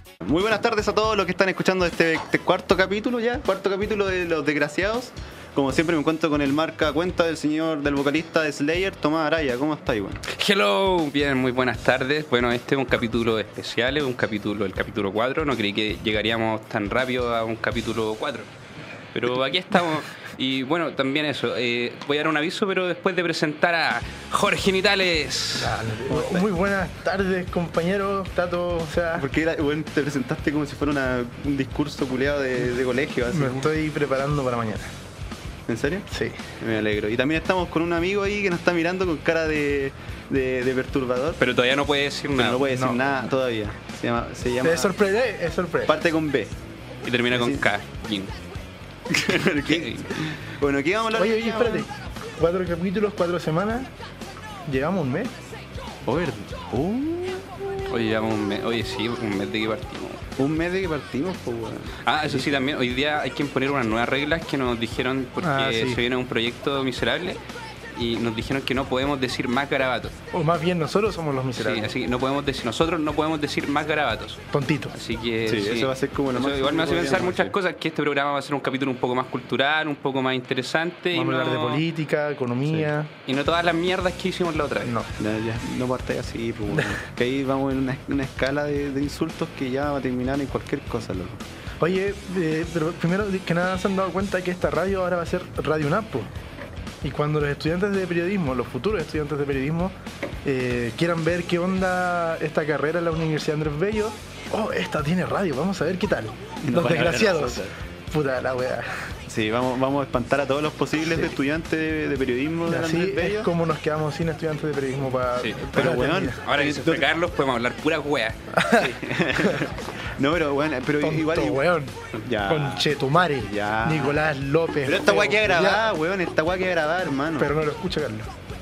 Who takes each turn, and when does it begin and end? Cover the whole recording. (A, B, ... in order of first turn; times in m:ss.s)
0:00.2-0:10.2 A
0:10.3-0:18.5 B
0:19.1-0:25.8 B
0:25.6-0:29.3 C
0:26.1-0:26.5 A
0:29.1-0:33.7 A
0:33.3-0:34.9 C
0:35.7-0:36.1 A
0:36.1-0:36.4 C
0:36.6-0:41.4 A
0:41.4-0:42.7 B
0:42.3-0:45.0 A
0:42.7-0:43.0 C
0:44.6-0:46.0 C
0:45.8-0:46.5 A
0:47.0-0:48.3 B
0:47.3-0:47.7 A
0:49.1-0:51.9 A
0:49.6-0:50.4 B
0:51.1-0:53.9 C
0:54.7-0:55.3 C
0:56.0-0:57.6 A
0:57.9-1:00.2 B
1:00.4-1:02.5 A
1:02.0-1:07.4 B
1:05.4-1:06.0 C
1:07.9-1:10.2 B
1:10.3-1:11.9 C
1:11.6-1:14.4 B
1:14.5-1:14.9 C
1:14.9-1:21.8 B
1:15.5-1:17.6 A
1:21.1-1:23.1 C
1:23.2-1:25.0 B
1:25.2-1:31.4 A
1:31.8-1:36.3 C
1:37.0-1:49.1 C
1:46.6-1:47.7 A
1:49.3-1:53.5 A
1:52.7-1:56.4 C
1:55.4-1:58.4 B
1:55.7-1:57.1 A
1:58.5-1:59.6 C
1:58.7-2:01.6 A
2:01.0-2:05.9 C
2:02.2-2:04.3 A
2:04.8-2:07.6 A
2:07.4-2:08.3 C